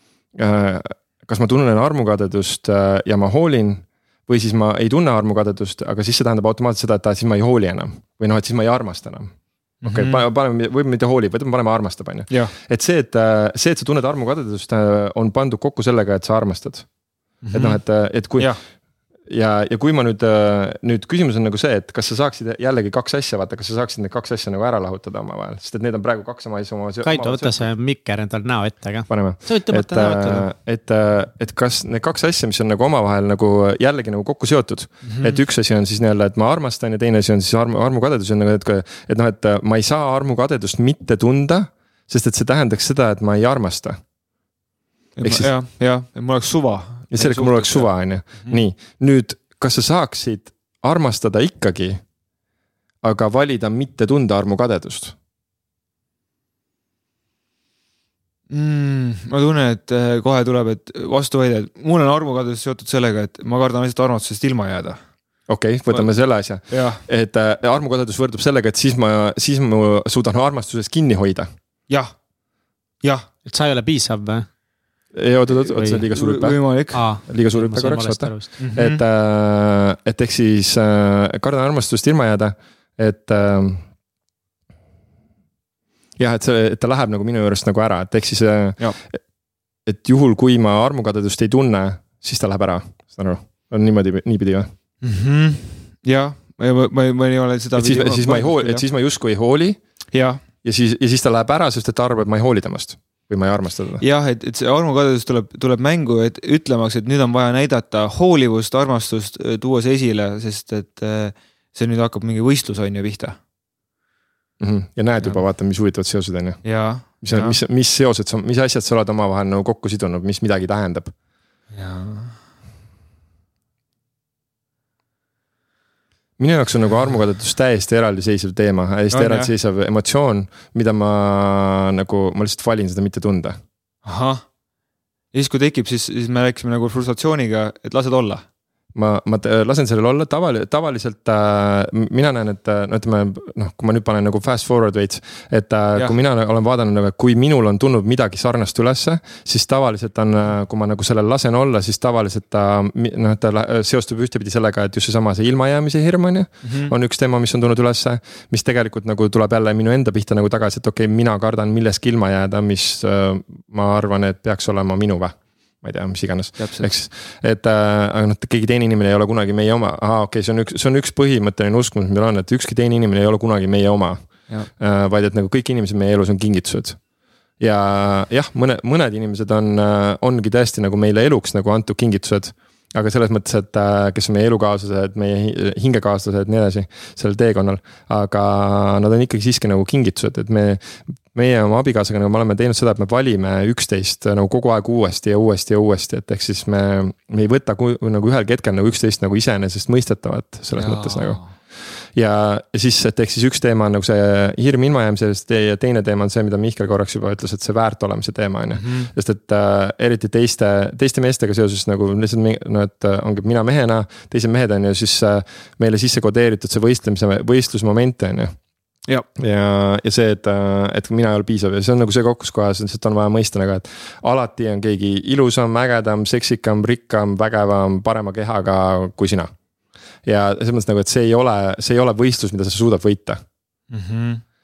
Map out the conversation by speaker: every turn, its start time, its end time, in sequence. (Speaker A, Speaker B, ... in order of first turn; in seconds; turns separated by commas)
Speaker A: 0.3-9.3, Speaker B: 9.8-10.2, Speaker A: 9.8-16.9, Speaker B: 17.4-17.8, Speaker A: 17.5-18.6, Speaker A: 19.2-27.7, Speaker C: 27.1-30.5, Speaker A: 29.1-44.0, Speaker B: 35.0-35.4, Speaker B: 45.1-48.6, Speaker A: 45.2-45.5, Speaker A: 47.1-52.0, Speaker A: 53.0-55.1, Speaker B: 58.5-65.0, Speaker A: 65.5-71.5, Speaker B: 66.7-67.0, Speaker C: 73.5-74.5, Speaker A: 75.1-83.9, Speaker C: 75.7-76.0, Speaker B: 76.1-77.1, Speaker C: 76.9-78.5, Speaker B: 78.6-79.0, Speaker A: 86.2-89.2, Speaker A: 89.9-94.7, Speaker B: 95.0-98.8, Speaker A: 97.7-99.8, Speaker B: 100.1-100.4, Speaker A: 100.6-104.0, Speaker B: 104.0-113.4, Speaker A: 114.6-121.1, Speaker B: 116.6-117.6, Speaker B: 121.7-122.4, Speaker A: 126.4-133.6, Speaker B: 129.1-129.5, Speaker B: 134.1-134.4, Speaker B: 135.3-138.4, Speaker A: 138.9-177.0, Speaker B: 156.6-156.9, Speaker B: 166.6-166.9, Speaker A: 177.6-201.4, Speaker B: 200.7-201.5, Speaker A: 202.1-218.5, Speaker B: 208.8-209.1, Speaker A: 219.4-229.5, Speaker A: 230.2-233.4, Speaker B: 233.9-234.4